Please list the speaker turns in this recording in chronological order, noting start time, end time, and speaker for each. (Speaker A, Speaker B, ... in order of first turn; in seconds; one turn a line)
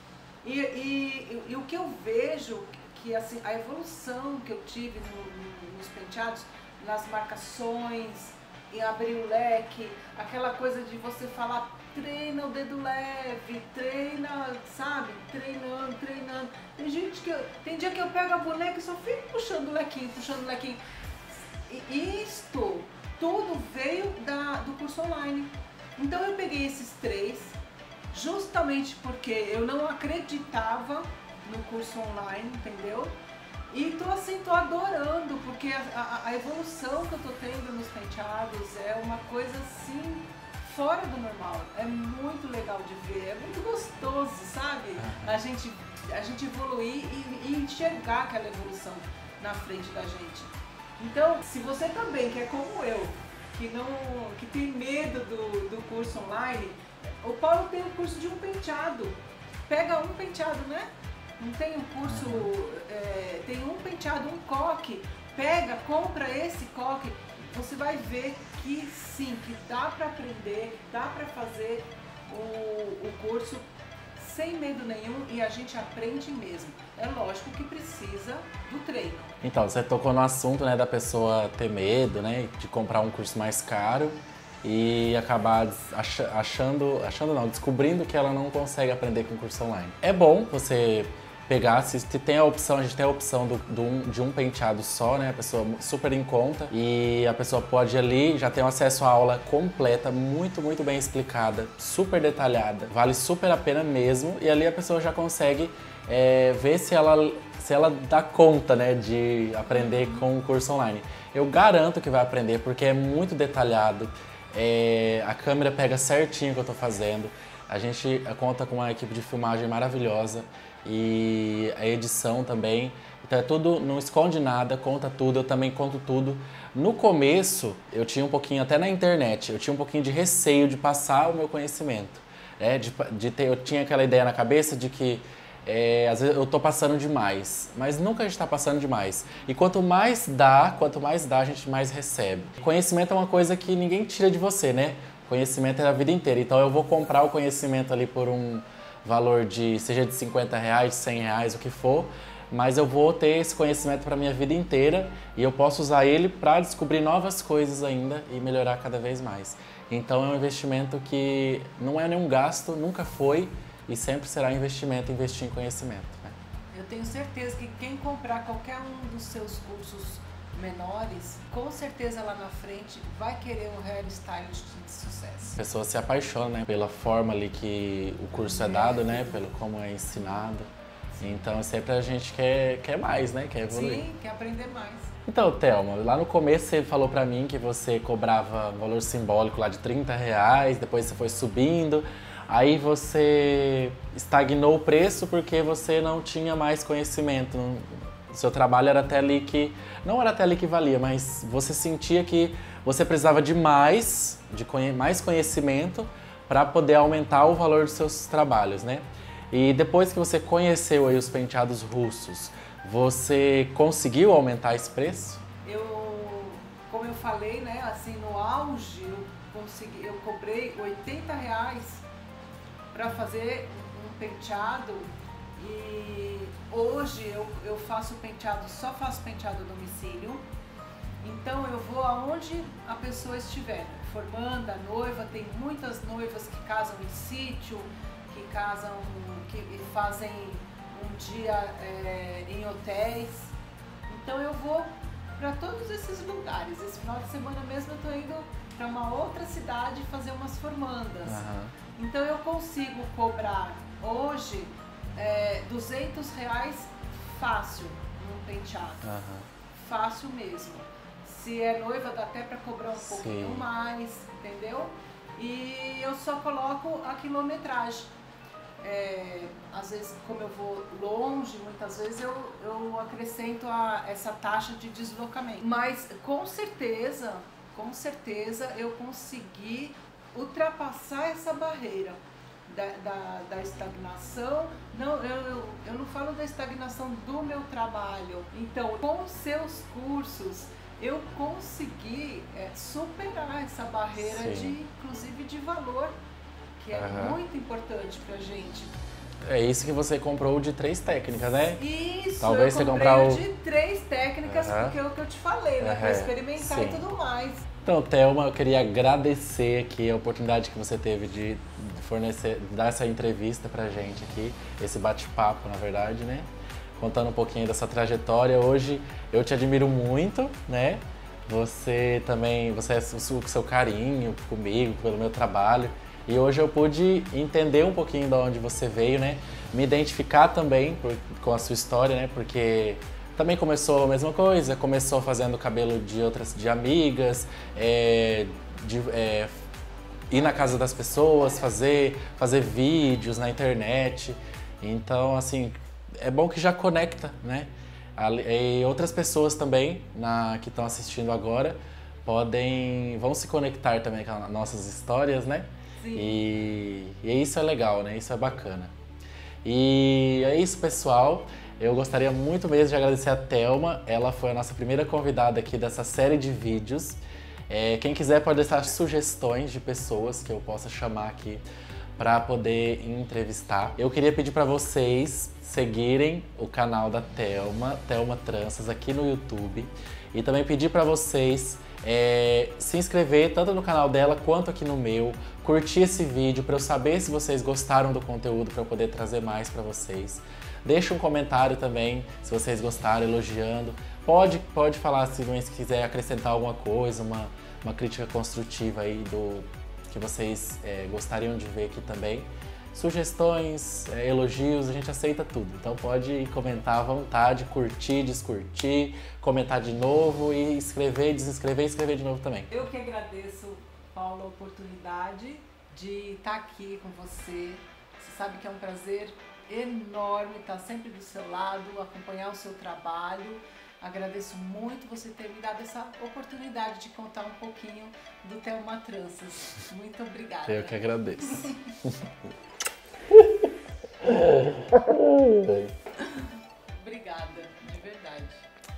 Speaker A: 0.4-20.8
Speaker A: 21.3-27.6
Speaker A: 28.1-33.2
Speaker A: 33.7-60.9
Speaker B: 45.0-45.4
Speaker A: 61.4-79.4
Speaker B: 62.0-62.5
Speaker B: 79.4-166.3
Speaker A: 109.7-110.3
Speaker A: 166.7-175.6
Speaker B: 175.6-180.7
Speaker A: 178.4-179.5
Speaker B: 181.2-184.0
Speaker A: 183.7-185.1
Speaker B: 185.2-215.4
Speaker A: 215.6-222.1
Speaker A: 222.9-230.5
Speaker A: 231.2-243.5
Speaker A: 244.1-259.1
Speaker B: 251.3-251.8
Speaker B: 259.0-259.5
Speaker A: 259.7-268.1
Speaker B: 263.0-263.6
Speaker A: 268.8-296.1
Speaker B: 294.2-294.8
Speaker A: 296.8-298.9
Speaker B: 296.9-297.4
Speaker B: 299.4-301.8
Speaker A: 301.7-307.7
Speaker B: 302.4-303.4
Speaker B: 304.4-304.9
Speaker B: 305.8-307.0
Speaker B: 307.8-339.6
Speaker B: 340.3-358.9
Speaker A: 340.4-341.6
Speaker A: 356.0-356.4
Speaker B: 359.6-371.6
Speaker B: 372.2-412.7
Speaker A: 412.7-431.8
Speaker B: 430.6-432.3
Speaker B: 433.3-433.7
Speaker B: 434.2-435.9
Speaker A: 436.2-438.7